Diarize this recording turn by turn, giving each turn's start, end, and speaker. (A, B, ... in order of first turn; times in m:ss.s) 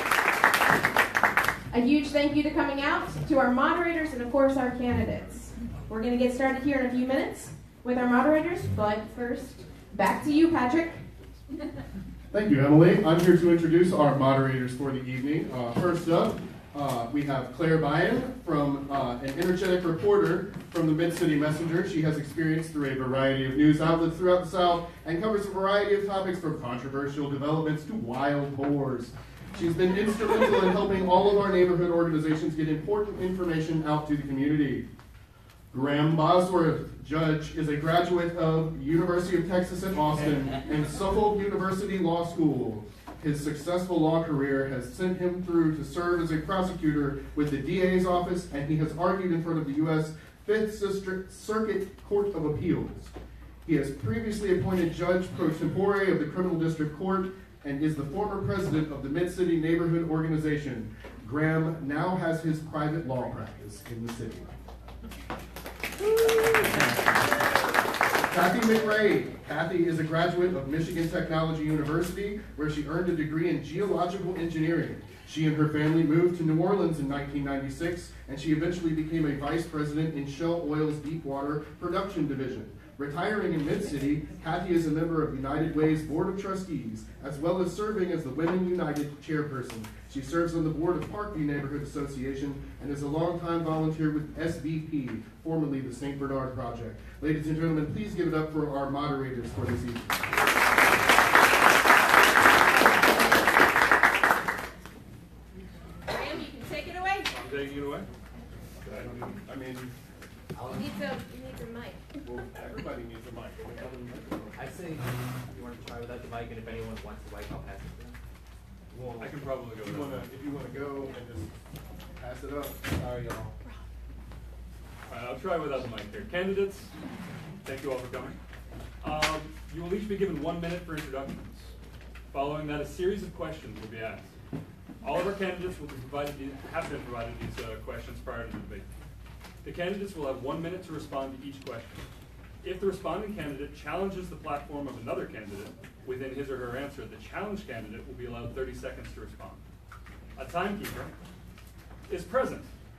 0:01.7-0:11.0 A
0:12.3-0:34.9 B
0:35.7-0:53.1 B
0:53.6-1:04.6 B
1:06.6-1:06.8 B
1:08.3-1:40.2 B
1:46.1-1:47.3 A
1:47.3-1:48.1 C
1:48.8-1:49.4 C
1:49.4-1:49.9 B
1:50.6-1:50.8 D
1:50.7-1:52.0 A
1:52.3-1:54.6 B
1:54.5-1:58.2 D
1:59.0-1:59.3 D
1:59.2-2:00.3 C
1:59.8-2:01.5 B
2:02.2-2:02.9 B
2:03.0-2:03.5 D
2:05.1-2:06.9 C
2:07.6-2:08.4 C
2:09.0-2:11.7 C
2:12.3-2:14.3 C
2:15.0-2:18.9 C
2:19.6-2:22.1 C
2:22.6-2:29.6 C
2:30.4-2:31.1 C
2:32.1-2:32.7 C